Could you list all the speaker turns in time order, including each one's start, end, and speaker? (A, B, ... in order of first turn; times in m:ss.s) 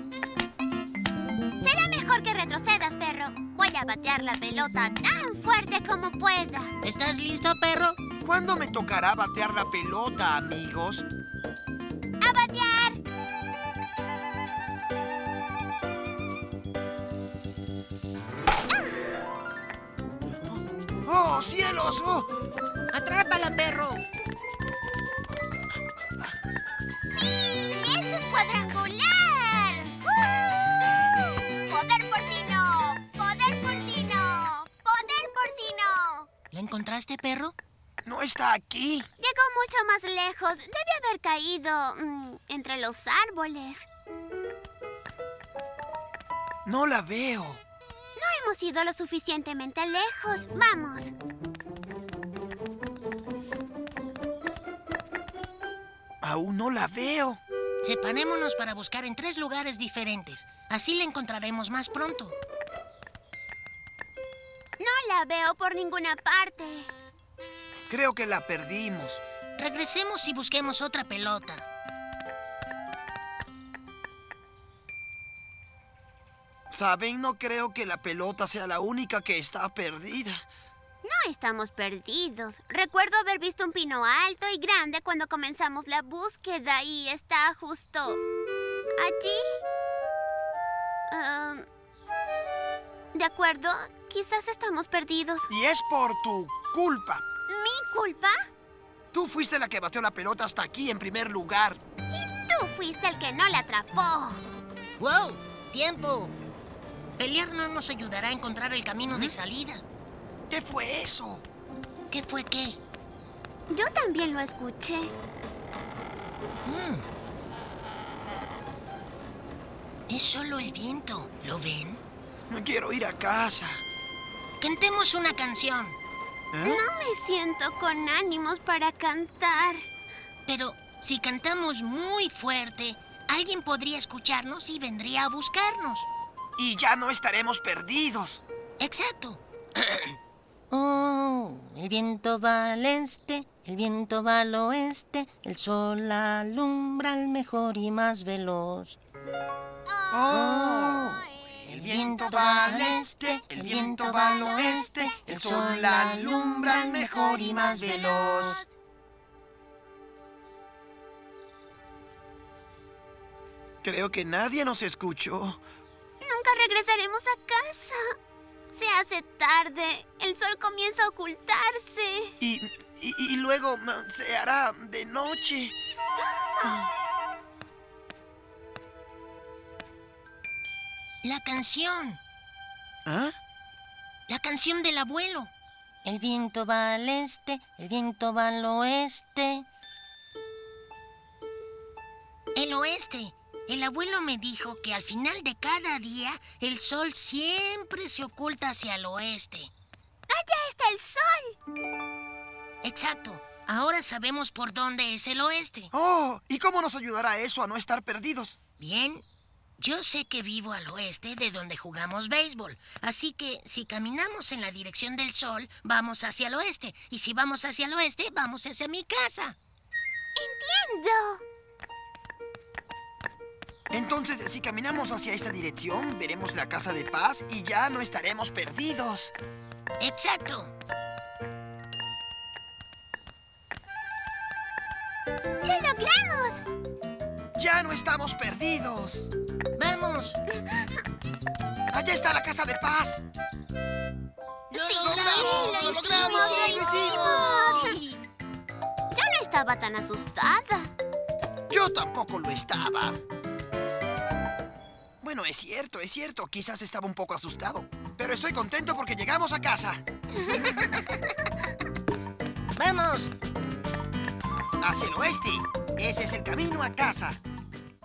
0:01.6-0:06.7 A
0:06.8-0:08.0 B
0:08.2-0:11.1 C
0:12.2-0:13.0 A
0:18.7-0:19.2 A
0:21.0-0:22.3 C
0:22.9-0:24.0 B
0:27.1-0:30.3 A
0:31.7-0:36.3 A
0:36.5-0:37.6 B
0:38.0-0:39.1 C
0:39.2-0:43.9 A
0:46.6-0:47.6 C
0:48.2-0:51.1 A
0:56.2-0:57.4 C
0:57.8-1:02.4 B
1:04.8-1:06.9 A
1:07.9-1:09.2 C
1:09.6-1:11.6 B
1:16.7-1:20.4 C
1:21.0-1:28.2 A
1:29.0-1:29.6 A
1:31.1-1:31.6 A
1:33.1-1:35.5 A
1:35.5-1:37.3 C
1:37.5-1:38.5 A
1:39.1-1:41.8 C
1:42.1-1:44.4 A
1:45.0-1:46.3 B
1:47.2-1:49.8 B
1:50.5-1:51.4 C
1:52.1-1:52.8 B
1:53.7-1:55.1 A
1:56.6-1:57.0 B
2:00.1-2:02.0 B
2:02.5-2:03.8 C
2:04.6-2:06.0 B
2:06.5-2:06.8 C
2:06.6-2:09.9 A
2:10.5-2:16.1 B
2:16.6-2:18.4 C
2:18.8-2:20.2 B
2:20.7-2:29.0 B
2:30.1-2:31.1 C
2:30.3-2:38.6 B
2:31.6-2:38.6 C
2:43.8-2:45.6 C
2:46.2-2:48.0 A
2:48.7-2:52.3 A
2:52.4-2:55.8 C
3:01.2-3:02.2 B
3:03.0-3:03.4 C
3:04.3-3:05.5 B
3:06.0-3:09.6 B
3:12.6-3:19.7 B
3:20.3-3:21.6 A
3:22.8-3:25.9 B
3:25.9-3:28.6 C
3:28.8-3:29.2 B
3:29.8-3:39.6 B
3:40.4-3:41.4 A
3:43.9-3:49.4 C
3:50.0-3:50.7 B
3:55.6-3:56.6 A
3:57.6-3:59.3 C
3:59.8-4:00.4 B
4:01.9-4:03.2 C
4:04.7-4:08.1 B
4:04.7-4:08.0 A
4:04.8-4:08.0 C
4:09.1-4:10.9 A
4:11.7-4:13.2 C
4:15.2-4:20.0 C
4:20.5-4:21.2 B
4:22.8-4:23.3 B
4:24.8-4:27.4 C